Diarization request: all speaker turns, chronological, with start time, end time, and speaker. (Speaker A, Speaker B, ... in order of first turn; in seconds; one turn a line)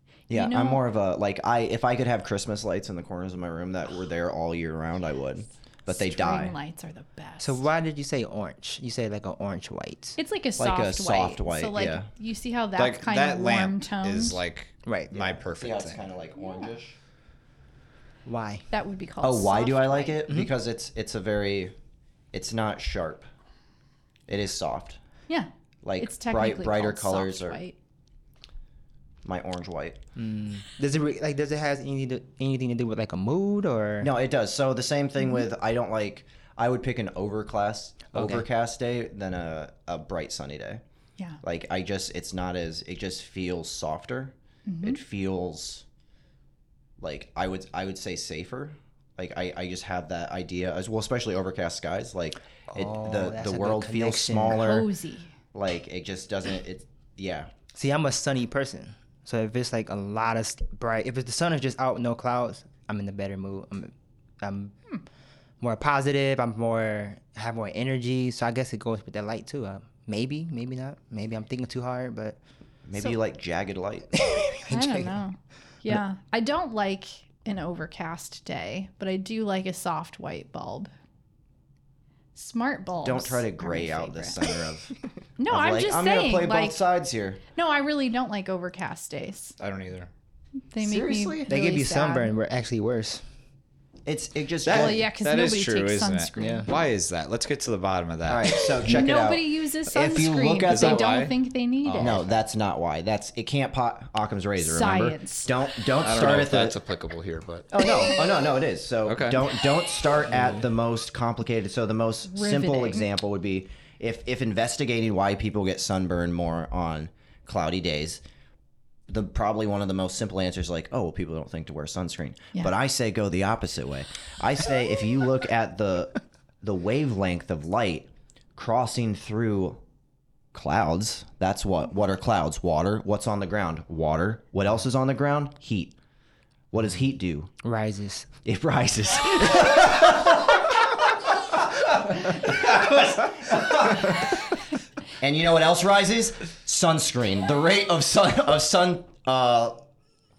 Speaker A: 0.3-6.5
Speaker B: 0.3-0.8
Speaker B: 5.9-7.6
Speaker C: 7.4-10.2
Speaker B: 10.2-14.4
Speaker A: 10.6-12.1
Speaker D: 12.8-16.0
Speaker C: 14.8-15.2
Speaker A: 15.2-16.9
Speaker B: 16.4-16.7
Speaker C: 18.2-18.6
Speaker B: 18.7-20.2
Speaker A: 19.2-21.7
Speaker A: 22.3-23.3
Speaker A: 24.3-25.0
Speaker B: 25.3-27.8
Speaker A: 25.8-27.6
Speaker A: 29.2-30.0
Speaker C: 30.1-34.1
Speaker A: 34.0-40.8
Speaker C: 38.1-38.4
Speaker A: 41.4-45.8
Speaker B: 44.6-45.0
Speaker A: 47.0-54.9
Speaker C: 52.7-54.7
Speaker B: 54.5-55.3
Speaker A: 55.5-57.5
Speaker C: 57.7-64.7
Speaker C: 65.6-72.4
Speaker A: 72.8-74.4
Speaker C: 74.1-75.2
Speaker B: 74.7-80.9
Speaker B: 82.3-84.6
Speaker A: 83.0-84.9
Speaker B: 85.4-86.8
Speaker A: 85.5-87.4
Speaker B: 87.5-89.6
Speaker D: 89.6-90.1
Speaker B: 90.7-92.3
Speaker A: 90.8-91.5
Speaker C: 91.5-93.2
Speaker A: 94.0-95.0
Speaker D: 94.7-98.9
Speaker B: 94.7-96.7
Speaker C: 96.4-96.7
Speaker A: 98.3-101.2
Speaker B: 98.8-102.2
Speaker D: 100.7-102.3
Speaker A: 102.0-106.8
Speaker B: 104.6-105.5
Speaker D: 106.0-107.7
Speaker A: 107.7-118.2
Speaker D: 109.0-109.4
Speaker B: 112.3-113.0
Speaker A: 119.1-129.8
Speaker A: 130.5-135.9
Speaker A: 136.7-137.5
Speaker C: 137.6-138.3
Speaker A: 138.4-144.4
Speaker A: 145.2-149.9